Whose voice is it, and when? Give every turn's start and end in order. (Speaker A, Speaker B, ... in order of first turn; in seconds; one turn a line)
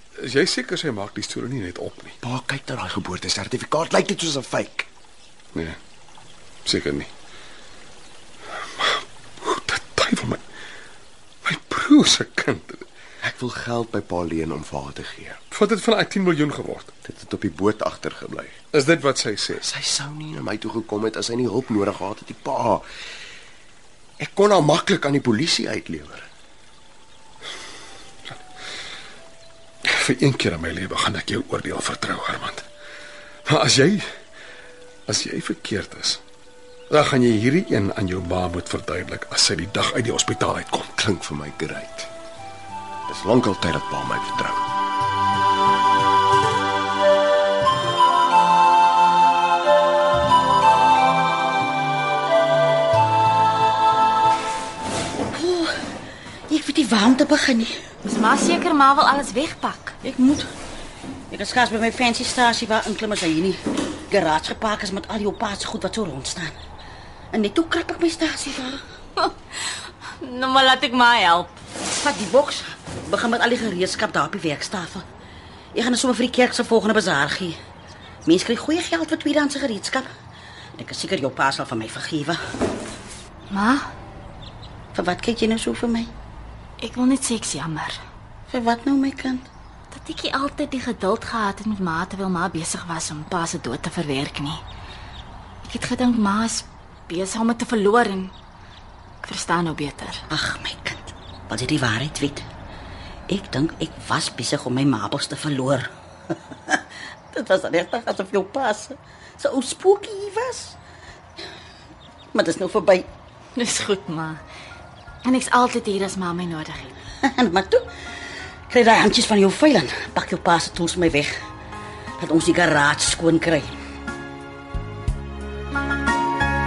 Speaker A: 0.2-2.1
Speaker B: 2.2-4.9
Speaker A: 6.7-7.1
Speaker A: 8.8-10.4
Speaker A: 11.4-12.8
Speaker B: 13.2-15.4
Speaker A: 15.5-16.9
Speaker B: 17.0-18.5
Speaker A: 18.7-19.6
Speaker B: 19.5-22.8
Speaker B: 24.2-26.2
Speaker A: 29.8-32.6
Speaker A: 33.5-34.0
Speaker A: 35.1-36.2
Speaker A: 36.9-40.9
Speaker B: 41.0-42.1
Speaker B: 43.1-44.6
Speaker C: 55.3-55.8
Speaker C: 56.5-57.8
Speaker D: 58.0-60.0
Speaker C: 60.0-60.5
Speaker C: 61.3-66.6
Speaker C: 67.3-68.8
Speaker D: 70.2-71.5
Speaker C: 72.0-75.0
Speaker C: 75.7-77.6
Speaker C: 78.2-80.1
Speaker C: 80.8-82.4
Speaker D: 83.5-83.8
Speaker C: 84.9-86.1
Speaker D: 86.8-88.0
Speaker C: 88.5-89.5
Speaker D: 89.9-94.6
Speaker D: 95.6-98.3
Speaker D: 99.2-100.2
Speaker C: 100.3-102.5
Speaker C: 103.3-110.8
Speaker C: 112.3-113.1
Speaker D: 113.5-114.4
Speaker D: 115.2-116.9
Speaker C: 117.2-117.9
Speaker C: 118.7-121.4
Speaker C: 122.2-123.7